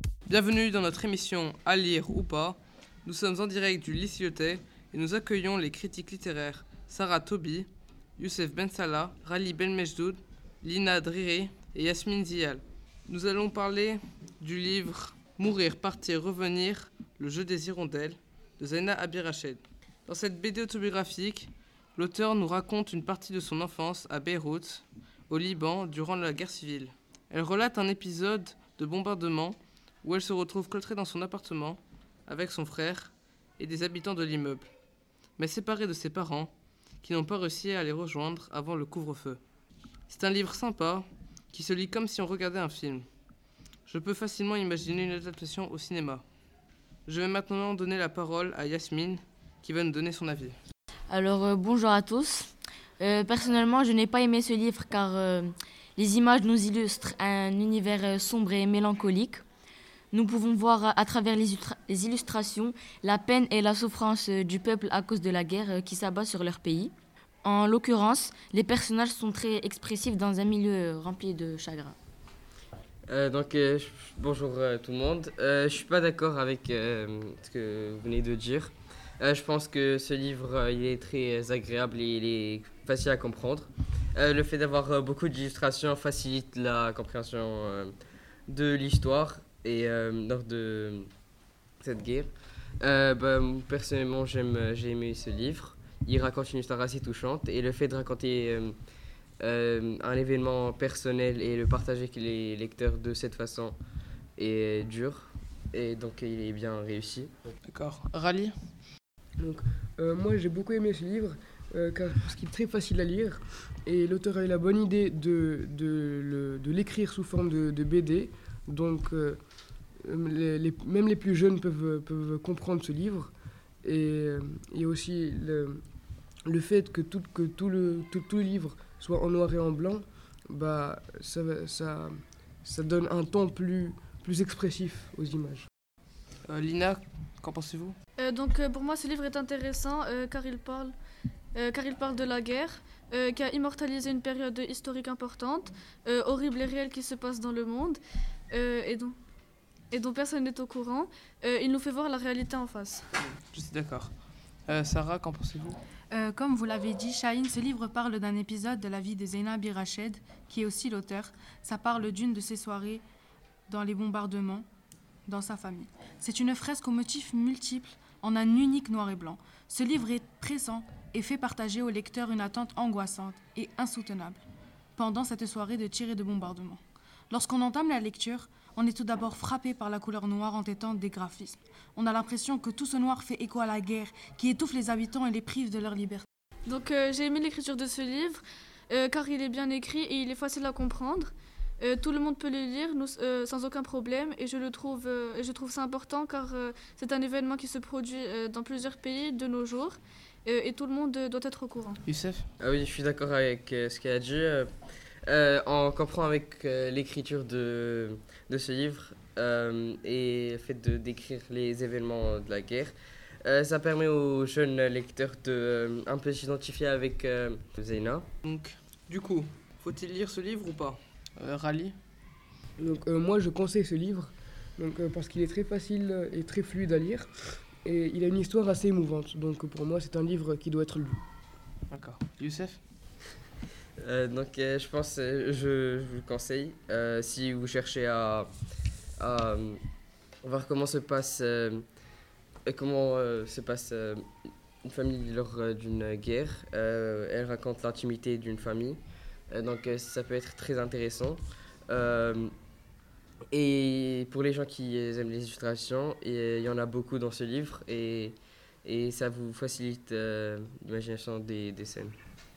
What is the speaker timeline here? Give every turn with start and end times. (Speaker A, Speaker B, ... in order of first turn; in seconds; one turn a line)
Speaker A: 0.3-34.7
Speaker A: 35.4-39.4
Speaker A: 40.1-43.1
Speaker A: 43.9-46.2
Speaker A: 47.0-50.6
Speaker B: 51.1-59.4
Speaker B: 60.1-66.9
Speaker B: 67.4-72.0
Speaker C: 73.1-87.9
Speaker C: 88.5-91.1
Speaker C: 91.8-98.7
Speaker C: 99.4-103.8
Speaker C: 104.4-107.3
Speaker A: 107.7-108.5
Speaker D: 109.4-119.4
Speaker D: 120.0-123.3
Speaker D: 123.8-125.8
Speaker D: 126.5-135.7
Speaker A: 136.4-138.0
Speaker E: 138.2-140.9
Speaker E: 141.5-148.0
Speaker E: 148.5-149.2
Speaker E: 149.9-153.1
Speaker A: 153.2-154.1
Speaker A: 154.7-155.8
Speaker F: 156.1-163.0
Speaker F: 163.7-164.7
Speaker F: 165.3-174.4
Speaker F: 174.9-186.3
Speaker E: 186.7-202.0
Speaker A: 202.1-202.4
Speaker C: 202.6-204.7
Speaker C: 205.2-218.3
Speaker A: 218.4-222.0
Speaker D: 222.8-231.2
Speaker A: 231.9-232.8
Speaker C: 234.0-238.5
Speaker C: 239.2-239.8
Speaker C: 240.4-241.8
Speaker C: 242.7-244.2
Speaker C: 244.8-252.5
Speaker C: 253.5-262.1